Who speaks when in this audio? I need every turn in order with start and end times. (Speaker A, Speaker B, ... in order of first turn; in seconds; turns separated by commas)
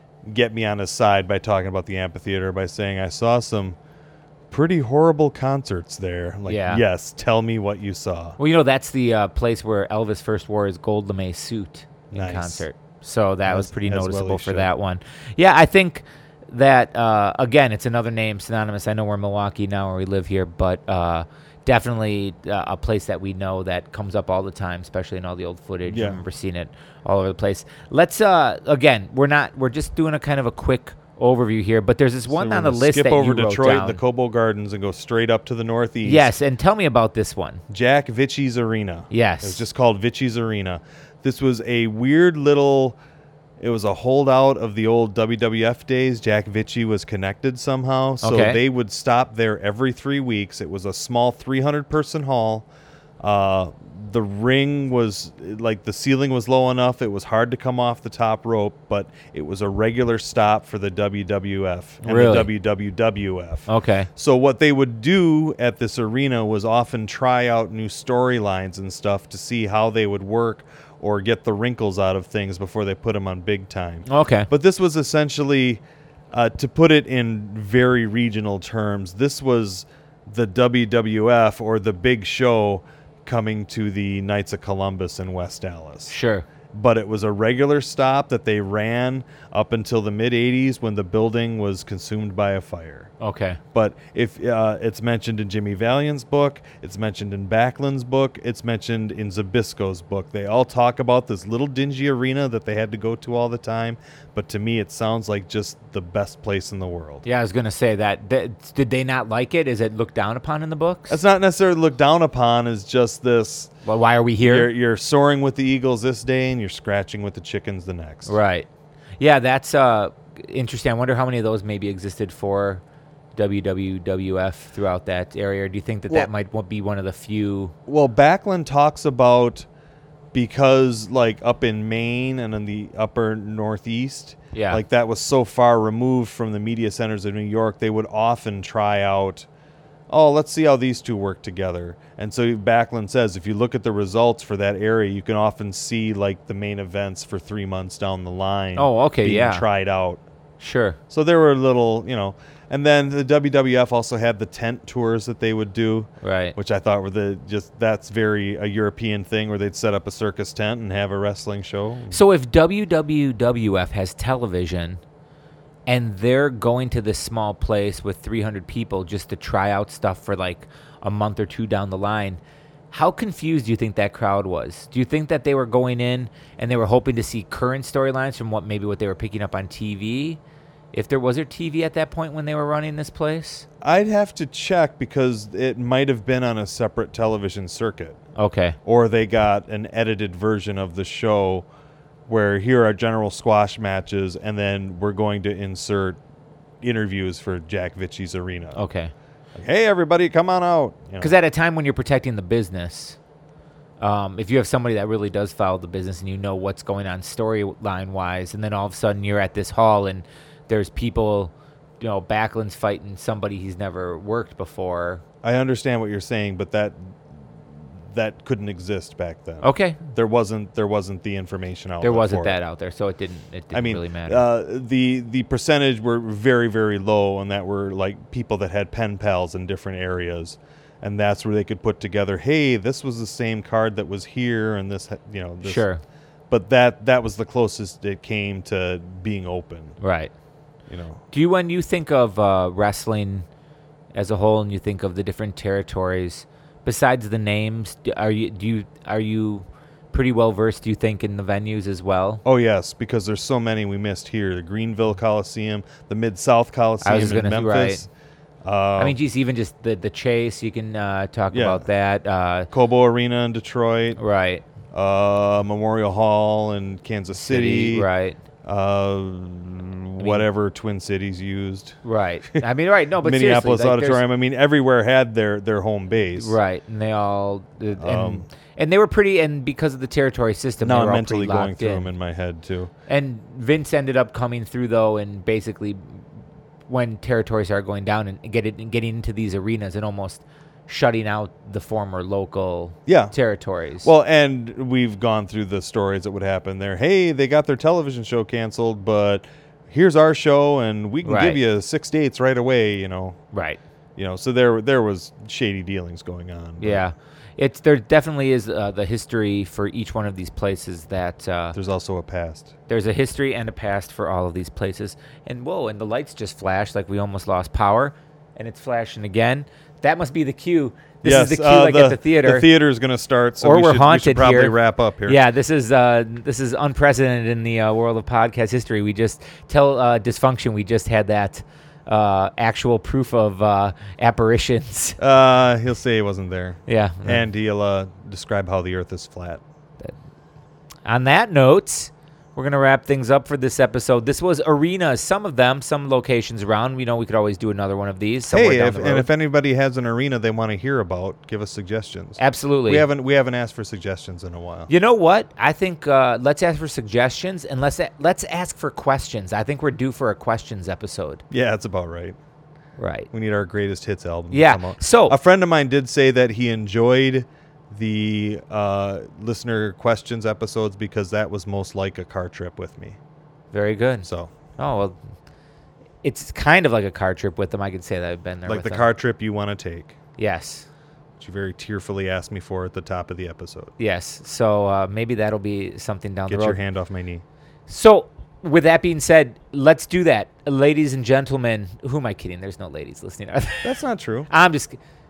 Speaker A: 0.2-3.8, Speaker A: 4.5-8.4, Speaker B: 6.5-6.8, Speaker B: 8.4-34.0, Speaker A: 12.1-12.6, Speaker A: 13.4-14.7, Speaker A: 25.9-26.2, Speaker A: 32.3-36.3, Speaker B: 36.0-37.6, Speaker A: 37.7-43.0, Speaker B: 39.1-39.6, Speaker A: 43.6-52.7, Speaker B: 48.2-48.6, Speaker A: 53.2-75.8, Speaker B: 62.0-62.5, Speaker B: 63.7-64.1, Speaker B: 74.1-74.5, Speaker A: 76.3-86.2, Speaker B: 86.1-86.5, Speaker A: 86.7-93.1, Speaker B: 93.2-93.6, Speaker A: 93.7-107.2, Speaker B: 107.2-111.2, Speaker A: 111.1-113.7, Speaker B: 113.8-114.7, Speaker A: 114.4-118.4, Speaker B: 118.3-118.7, Speaker B: 119.2-122.8, Speaker B: 123.3-127.7, Speaker A: 127.9-129.7, Speaker A: 130.3-139.5, Speaker B: 134.5-134.8, Speaker A: 140.1-150.2, Speaker B: 148.8-149.6, Speaker B: 150.6-151.0, Speaker A: 151.1-162.2, Speaker B: 156.2-156.6, Speaker B: 162.1-165.0, Speaker B: 165.9-180.4, Speaker B: 180.9-183.7, Speaker A: 183.8-188.2, Speaker B: 188.4-188.8, Speaker A: 188.8-191.7, Speaker A: 192.3-196.2, Speaker A: 196.8-198.8, Speaker B: 198.8-199.1, Speaker A: 199.6-201.3, Speaker B: 201.2-203.2, Speaker B: 204.0-215.2, Speaker A: 215.4-217.2, Speaker A: 218.1-222.6, Speaker B: 219.6-220.0, Speaker B: 222.0-224.4, Speaker A: 223.7-235.8, Speaker B: 235.6-236.0, Speaker A: 236.5-240.0, Speaker B: 240.0-240.3, Speaker A: 240.9-241.2, Speaker B: 241.3-243.5, Speaker B: 244.1-252.4, Speaker A: 252.4-258.1, Speaker B: 257.0-258.1, Speaker A: 258.6-259.2, Speaker B: 259.0-262.7, Speaker A: 261.5-261.9, Speaker A: 262.7-264.2, Speaker B: 264.2-264.6, Speaker A: 264.9-268.1, Speaker B: 267.4-268.4, Speaker A: 268.6-272.0, Speaker B: 270.2-270.5, Speaker B: 272.0-274.2, Speaker A: 273.2-276.6, Speaker B: 276.4-282.1, Speaker A: 277.9-278.5, Speaker A: 280.8-282.9, Speaker B: 283.1-286.2, Speaker B: 286.9-294.1, Speaker A: 293.1-293.4, Speaker A: 294.0-303.4, Speaker B: 301.2-301.6, Speaker B: 303.5-303.8, Speaker A: 304.2-307.1, Speaker B: 306.8-311.8, Speaker A: 311.8-312.7, Speaker B: 312.9-322.7, Speaker A: 321.2-325.4, Speaker B: 323.6-335.2, Speaker A: 335.2-339.6, Speaker B: 336.9-337.5, Speaker B: 341.1-349.3, Speaker A: 348.5-354.9, Speaker B: 352.4-353.1, Speaker B: 354.9-361.4, Speaker A: 361.5-362.4, Speaker B: 363.0-363.3, Speaker A: 363.3-373.2, Speaker B: 364.5-365.4, Speaker B: 373.7-375.2, Speaker A: 374.2-374.5, Speaker B: 376.2-379.1, Speaker A: 378.7-380.2, Speaker B: 380.4-380.9, Speaker A: 381.4-383.9, Speaker B: 384.0-386.8, Speaker A: 386.5-387.4, Speaker B: 387.9-394.0, Speaker A: 393.8-394.5, Speaker B: 394.5-395.0